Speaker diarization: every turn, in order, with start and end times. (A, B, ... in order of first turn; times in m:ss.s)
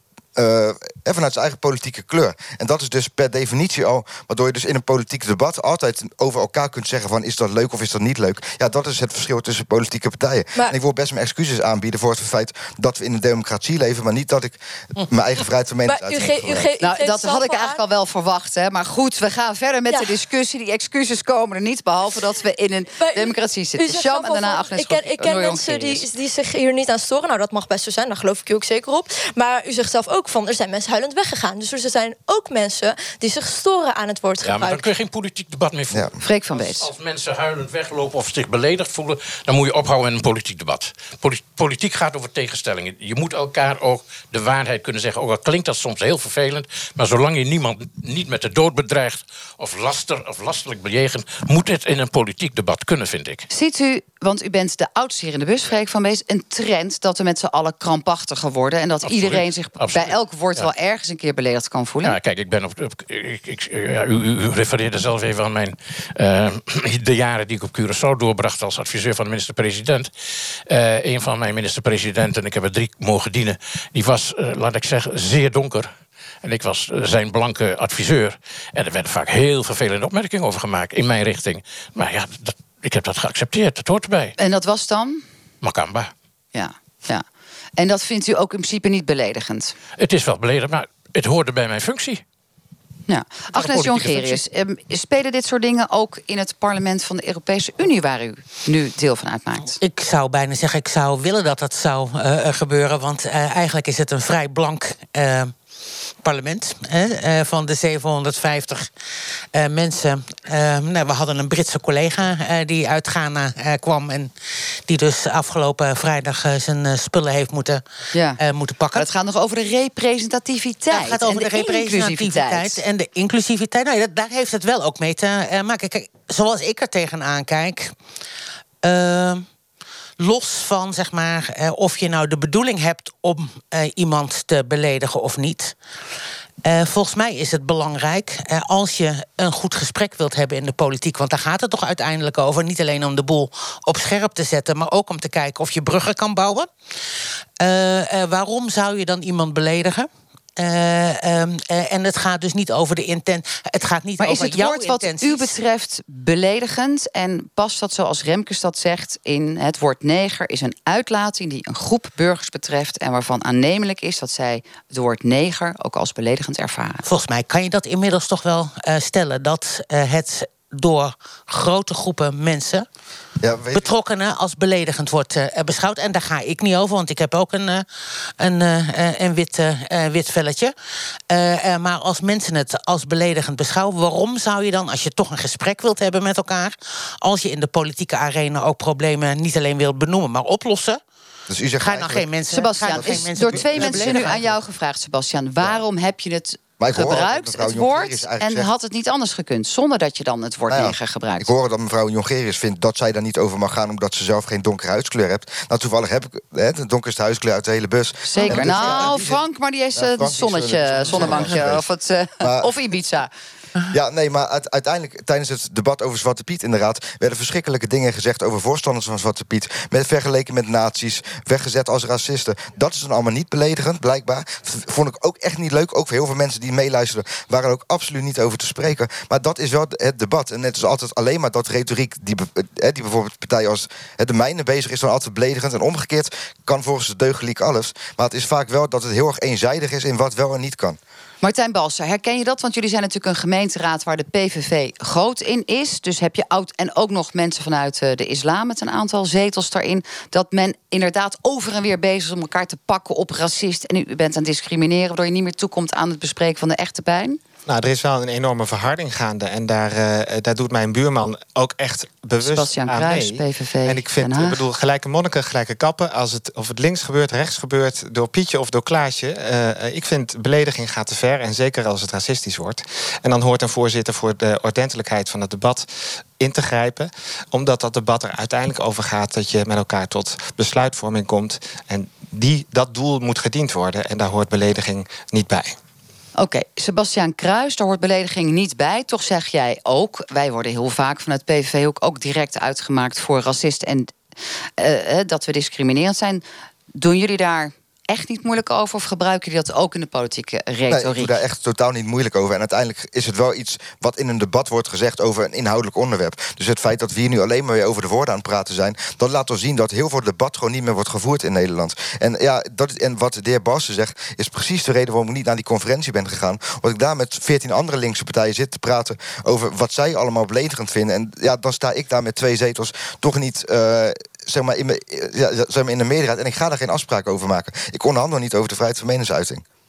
0:00.4-0:16.7 A
0:15.8-0:17.8 B
0:16.8-0:26.1 C
0:23.0-0:34.9 B
0:34.4-0:53.5 D
0:36.2-0:36.9 C
0:53.5-1:02.2 C
0:59.0-1:00.7 D
1:02.0-1:10.1 D
1:10.7-1:15.9 D
1:16.4-1:24.4 D
1:24.4-1:25.2 C
1:25.6-1:26.1 D
1:26.5-1:27.2 C
1:27.8-1:29.7 C
1:30.0-1:32.2 D
1:33.1-1:39.8 C
1:33.6-1:34.4 D
1:39.8-1:45.5 E
1:46.2-1:48.9 E
1:49.5-1:54.3 E
1:54.9-1:57.8 E
1:58.1-1:58.4 C
1:58.4-1:59.1 E
1:58.9-2:02.8 C
2:00.9-2:07.9 E
2:08.8-2:09.5 E
2:10.2-2:15.8 E
2:16.6-2:26.7 E
2:27.6-2:35.6 E
2:34.2-2:47.0 C
2:47.0-2:52.9 E
2:53.4-2:53.9 A
2:53.7-2:57.8 E
2:58.4-3:00.7 E
3:01.3-3:11.0 E
3:11.5-3:12.3 A
3:11.8-3:14.5 E
3:12.5-3:21.5 C
3:12.9-3:14.6 A
3:16.8-3:18.7 A
3:20.7-3:29.4 A
3:28.3-3:33.3 C
3:30.0-3:31.9 A
3:32.4-3:32.7 A
3:33.9-4:01.0 A
4:01.4-4:17.4 C
4:17.7-4:45.8 F
4:22.4-4:24.6 C
4:46.4-4:54.2 C
4:54.8-4:56.4 C
4:57.0-5:01.4 C
5:00.9-5:29.6 A